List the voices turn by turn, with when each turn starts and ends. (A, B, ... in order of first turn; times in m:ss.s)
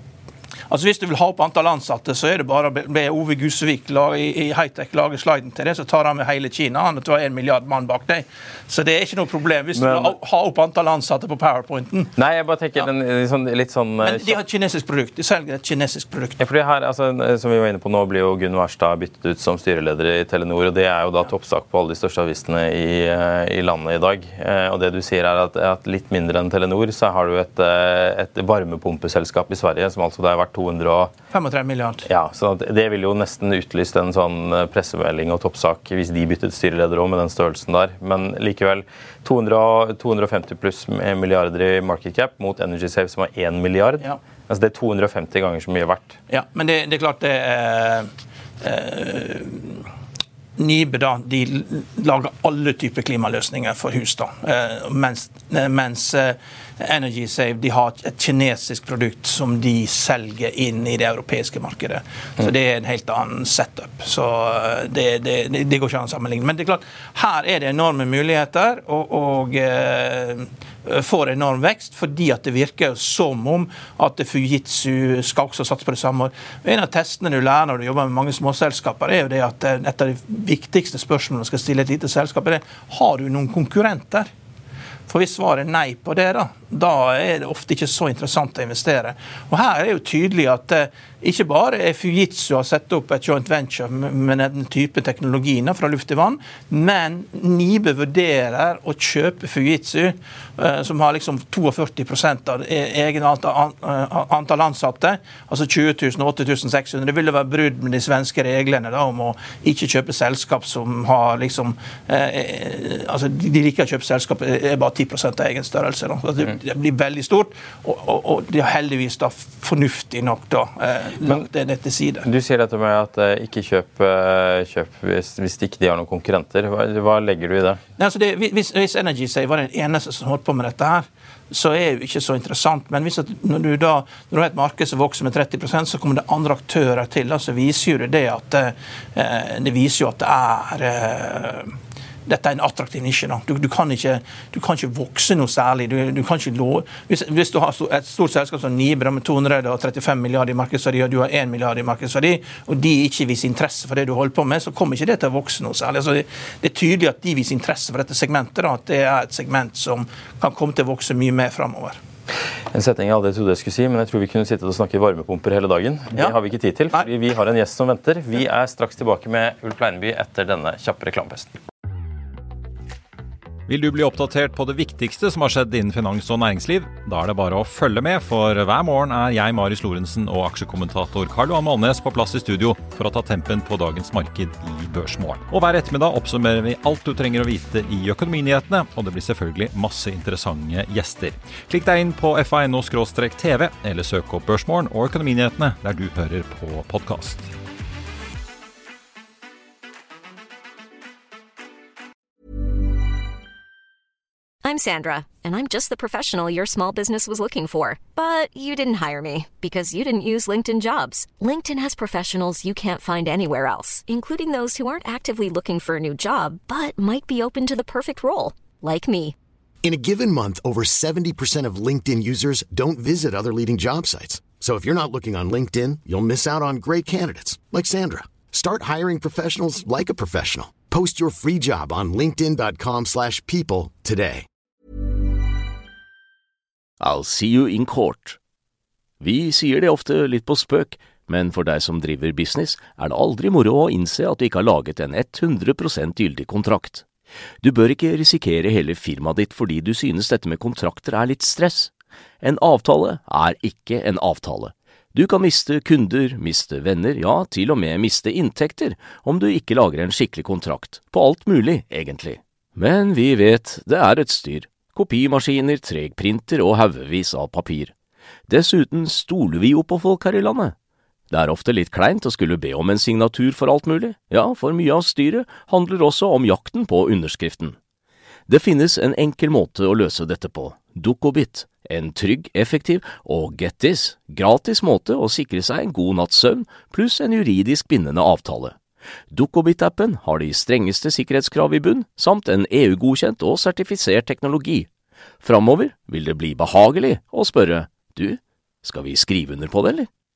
0:00.7-0:12.1 A
0:09.8-0:10.1 B
0:12.2-0:14.4 B
0:14.0-0:16.4 A
0:16.4-0:31.1 B
0:31.3-0:32.1 A
0:32.1-0:46.2 B
0:46.3-0:48.1 A
0:48.6-0:49.8 A
0:50.6-1:24.3 A
1:25.1-2:02.3 A
2:02.2-2:07.8 B
2:08.0-2:21.7 A
2:22.3-2:42.0 A
2:42.7-2:51.6 B
2:53.7-3:17.5 C
3:24.6-3:39.4 D
3:39.8-3:54.5 E
3:57.0-3:58.4 F
3:59.2-4:07.0 F
4:07.6-4:27.9 F
4:28.5-4:30.8 F
4:31.3-4:37.8 F
4:38.5-4:48.8 F
4:49.3-4:54.9 F
4:55.4-5:00.1 F